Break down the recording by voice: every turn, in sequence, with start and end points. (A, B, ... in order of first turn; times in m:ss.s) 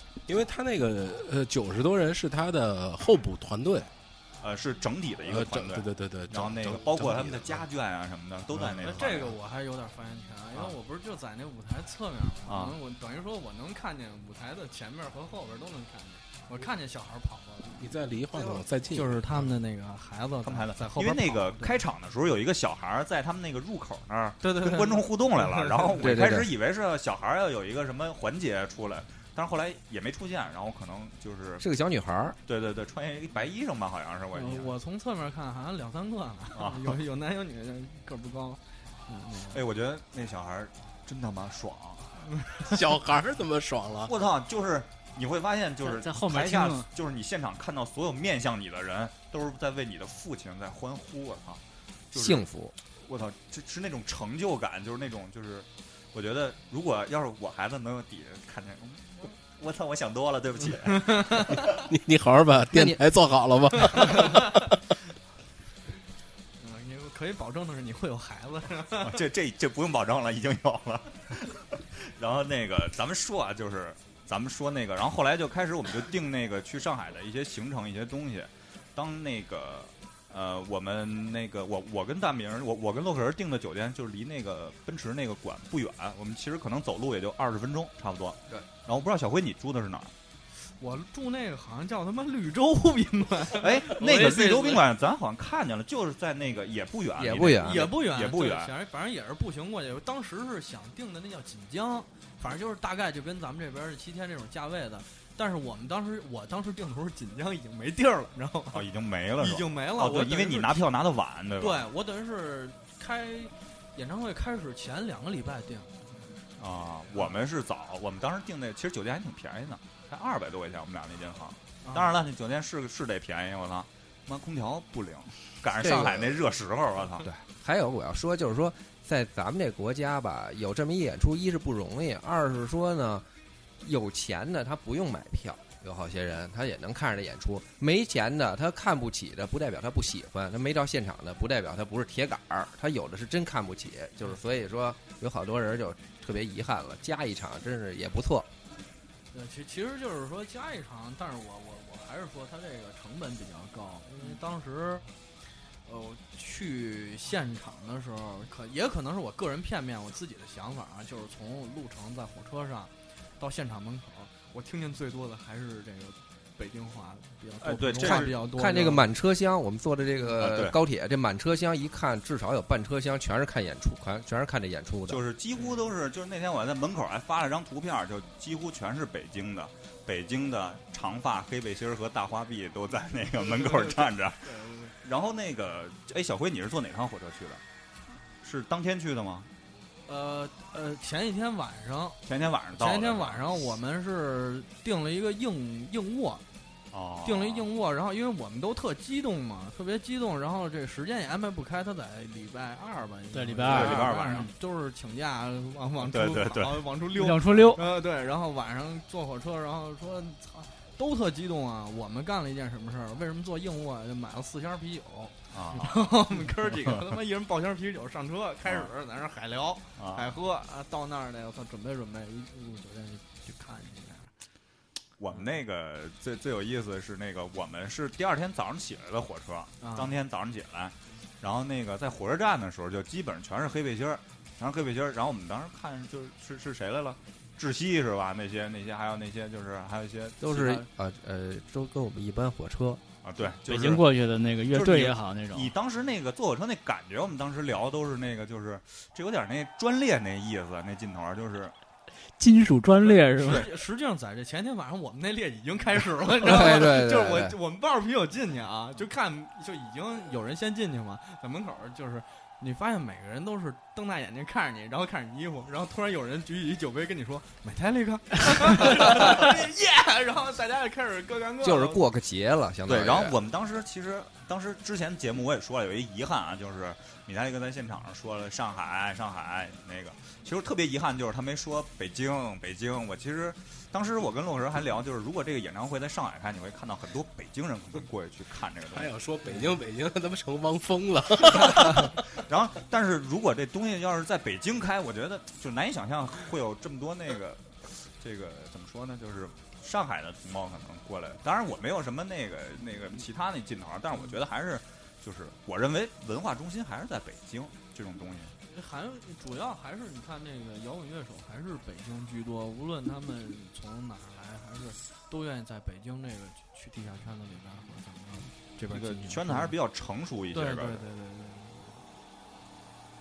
0:00.3-0:03.9 A
0:04.4-0:09.3 B
0:05.3-0:07.6 A
0:08.5-0:09.2 A
0:08.8-0:17.9 C
0:12.5-0:12.8 B
0:17.7-0:19.5 A
0:18.9-0:21.8 C
0:20.4-0:31.6 B
0:24.4-0:26.1 C
0:26.0-0:26.5 D
0:31.6-0:32.4 D
0:32.5-0:34.7 B
0:34.3-0:39.6 C
0:36.5-0:37.0 B
0:39.5-0:42.2 B
0:42.3-0:42.6 C
0:42.6-0:44.1 A
0:44.0-0:52.5 B
0:45.8-0:46.9 E
0:52.1-0:52.7 D
0:53.0-1:01.8 B
1:01.2-1:01.4 C
1:01.3-1:04.6 A
1:02.7-1:03.0 D
1:04.0-1:04.4 C
1:06.6-1:09.2 C
1:09.0-1:30.1 B
1:30.6-1:33.7 C
1:33.6-1:38.7 B
1:33.9-1:34.8 E
1:37.2-1:37.9 D
1:37.6-1:48.8 C
1:48.7-1:51.8 B
1:49.4-1:50.8 C
1:51.6-1:56.0 C
1:56.6-2:07.2 B
2:01.8-2:02.2 C
2:05.8-2:06.4 D
2:07.2-2:13.2 D
2:13.8-2:28.5 D
2:29.3-2:35.0 C
2:35.8-2:49.0 C
2:47.6-2:48.4 B
2:48.0-2:55.2 D
2:50.4-2:50.8 B
2:55.1-3:07.6 B
3:03.5-3:04.9 C
3:08.4-3:09.5 B
3:10.1-3:12.2 C
3:12.2-3:13.7 B
3:12.8-3:16.4 C
3:16.9-3:17.7 B
3:17.2-3:44.3 C
3:23.3-3:24.5 E
3:23.7-3:24.5 B
3:26.0-3:26.8 B
3:27.2-3:27.8 E
3:35.5-3:36.1 B
3:40.0-3:40.3 B
3:45.2-4:00.8 B
3:49.8-3:50.2 C
4:00.4-4:03.0 D
4:03.2-4:04.0 B
4:03.7-4:05.7 E
4:04.7-4:11.7 B
4:12.4-4:13.7 E
4:13.4-4:32.0 C
4:13.4-4:13.7 B
4:16.4-4:17.6 D
4:31.6-4:33.4 D
4:32.9-4:49.1 B
4:48.9-4:52.2 A
4:51.5-5:08.5 B
5:08.6-5:19.7 C
5:18.9-5:21.0 B
5:20.5-5:22.0 C